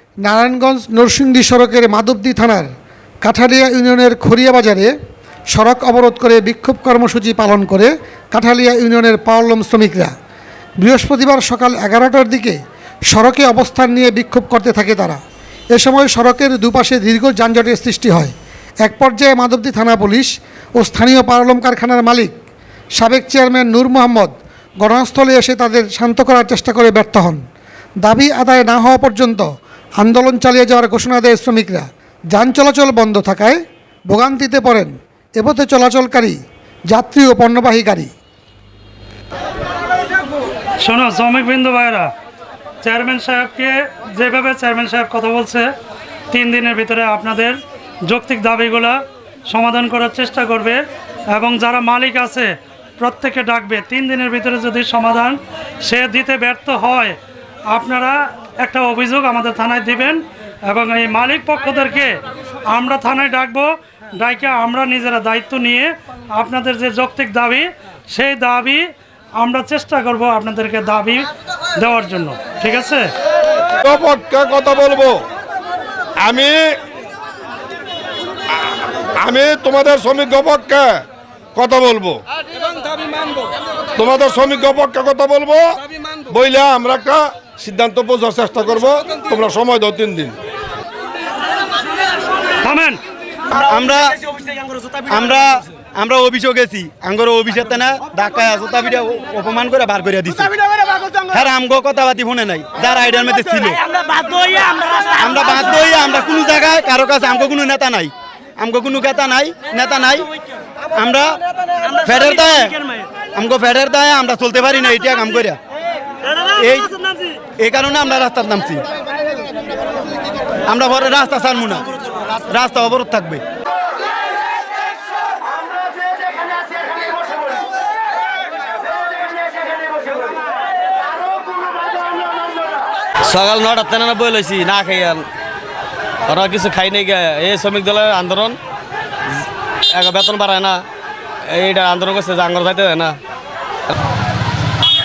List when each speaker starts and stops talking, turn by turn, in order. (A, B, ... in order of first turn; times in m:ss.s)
0:00.2-0:02.7 A
0:03.2-0:04.9 A
0:05.5-0:10.1 A
0:10.8-0:15.2 A
0:15.7-0:18.3 A
0:18.8-0:22.3 A
0:23.0-0:27.4 A
0:28.0-0:29.5 A
0:30.0-0:36.4 A
0:36.9-0:38.1 A
0:40.8-0:42.1 B
0:42.8-0:45.7 B
0:46.3-0:57.2 B
0:57.7-1:13.1 B
1:13.8-1:15.2 C
1:16.2-1:16.8 C
1:19.2-1:21.0 C
1:21.6-1:22.2 C
1:24.0-1:30.4 C
1:32.6-1:33.0 B
1:33.5-1:34.2 D
1:35.0-1:40.6 D
1:41.3-1:43.8 D
1:45.0-1:50.3 D
1:50.9-1:51.4 D
1:51.9-1:55.6 D
1:56.5-1:57.0 D
1:57.6-1:58.8 D
2:00.7-2:03.4 D
2:13.2-2:15.3 E
2:16.3-2:18.6 E
2:19.9-2:20.8 E
2:21.5-2:23.2 E